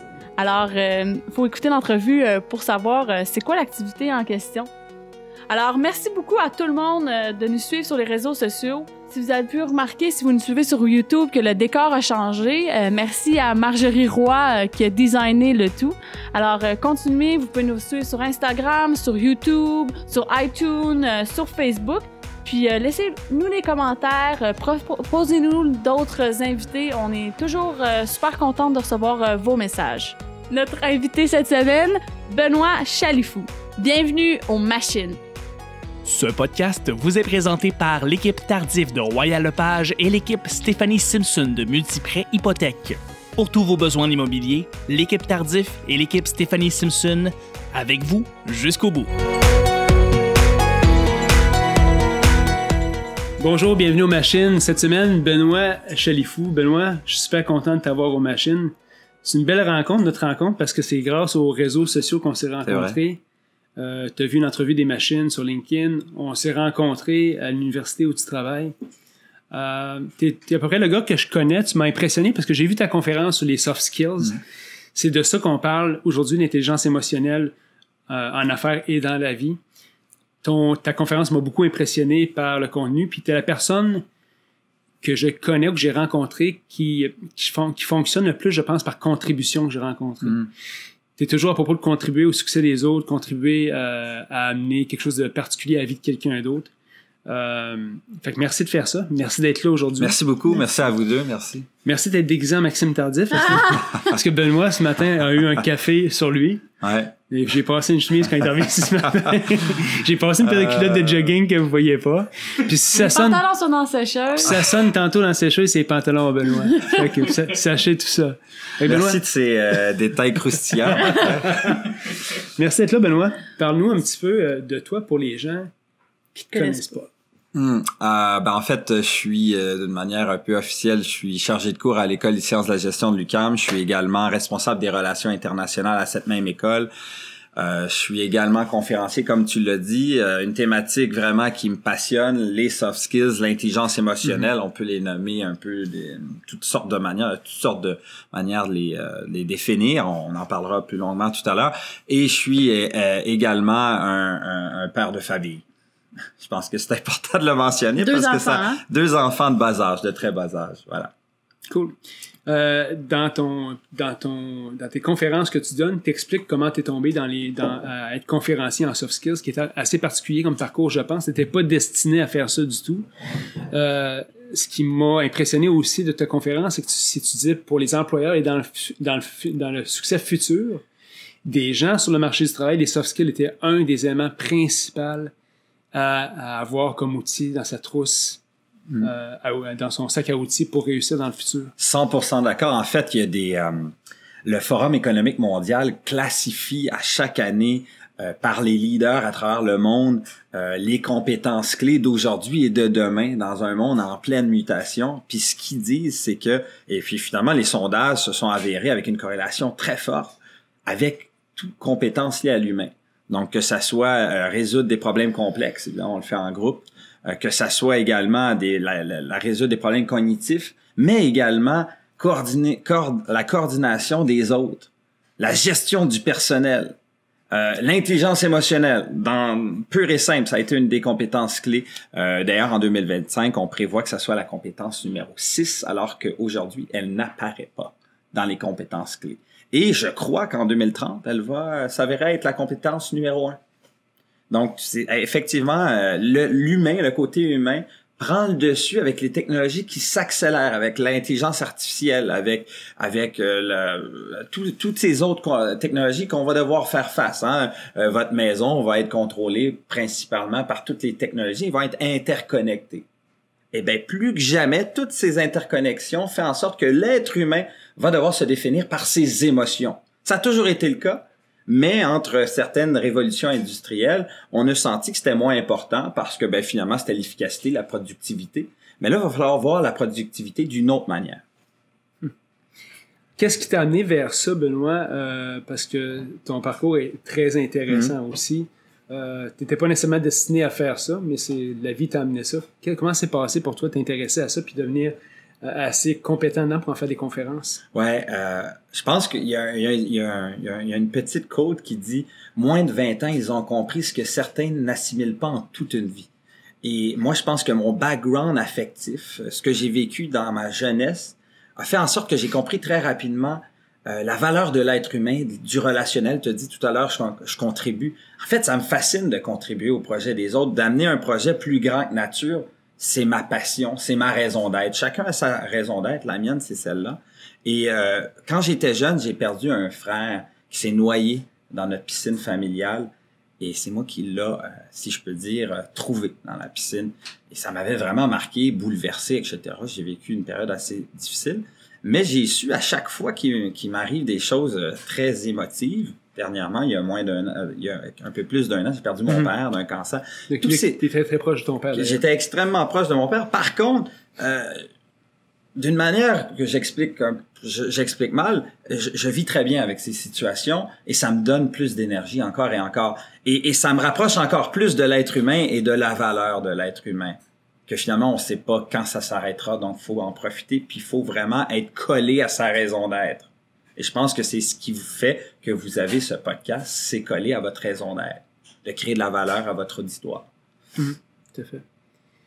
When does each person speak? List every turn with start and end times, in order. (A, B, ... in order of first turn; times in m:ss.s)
0:00.4-0:04.7 A
0:05.5-0:35.2 A
0:36.0-0:49.1 B
0:53.4-1:03.2 C
1:02.6-1:03.0 D
1:03.8-1:08.7 C
1:09.5-1:14.4 C
1:14.9-1:17.5 C
1:18.1-1:19.6 C
1:20.4-1:24.0 C
1:25.0-1:30.4 C
1:31.2-1:36.7 C
1:37.3-1:40.2 C
1:40.0-1:41.7 D
1:41.8-1:46.6 C
1:46.8-1:47.1 D
1:47.3-1:53.4 C
1:50.4-1:51.3 D
1:52.9-1:54.6 A
1:54.4-1:59.2 C
1:58.8-2:01.8 D
2:01.2-2:01.8 C
2:02.4-2:05.7 C
2:06.3-2:07.1 C
2:06.5-2:06.8 A
2:07.5-2:16.9 D
2:17.6-2:35.6 D
2:24.2-2:24.5 C
2:36.4-2:41.1 D
2:38.0-2:38.8 A
2:41.7-2:41.9 C
2:42.4-2:53.1 C
2:53.7-3:00.8 C
3:01.4-3:05.3 C
3:05.9-3:08.4 C
3:09.0-3:11.7 C
3:11.8-3:13.9 D
3:14.4-3:47.0 D
3:47.5-4:03.6 D
4:04.5-4:23.0 D
4:23.7-4:41.4 D
4:43.4-4:57.8 C
4:57.9-5:06.3 D
5:06.8-5:51.0 D
5:50.5-5:52.2 C
5:51.9-5:54.9 D
5:55.8-6:20.5 D
6:21.0-6:21.8 C